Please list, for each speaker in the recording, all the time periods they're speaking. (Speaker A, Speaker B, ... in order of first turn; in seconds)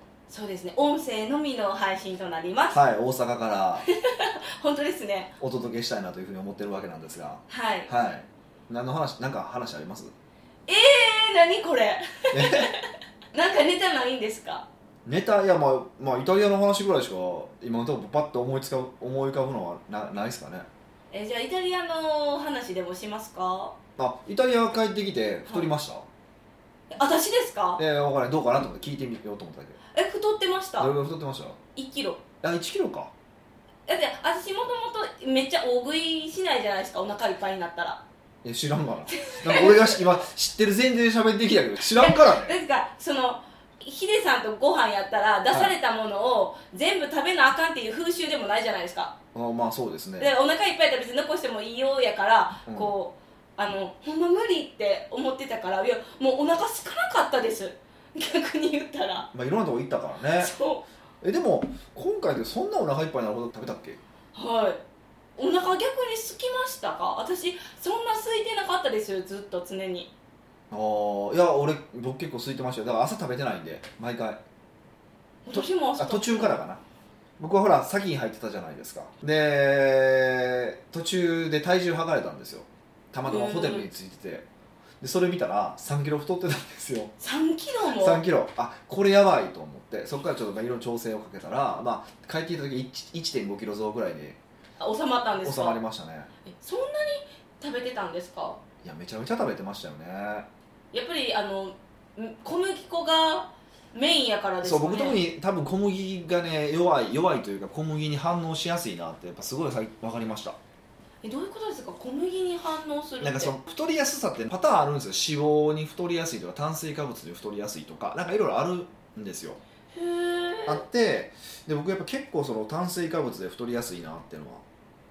Speaker A: 0.3-2.8, 3.9-5.3, 7.5-7.9, 10.7-14.7, 21.1-23.8, 26.9-27.8, 29.9-30.9, 31.8-32.2, 33.9-38.0, 39.1-40.1, 41.8-49.1, 50.2-59.3, 60.4-60.8, 64.3-64.8, 65.4-70.1, 75.5-76.6, 83.2-83.9, 87.2-88.2, 94.8-95.8, 96.5-98.6, 100.9-105.2, 111.2-113.6, 119.9-120.8
Speaker B: 2.7-3.9, 5.4-10.1, 12.3-12.7, 15.1-20.7, 24.0-26.1, 27.8-29.8, 30.8-31.6, 32.4-33.1, 38.4-42.6, 49.3-50.3, 52.7-52.9, 59.3-60.5, 61.2-64.0, 70.7-74.4, 75.5-76.8, 77.4-84.5, 85.0-87.1, 88.0-94.4, 95.4-96.3, 98.8-100.5, 104.6-110.6, 113.2-119.6, 120.7-124.6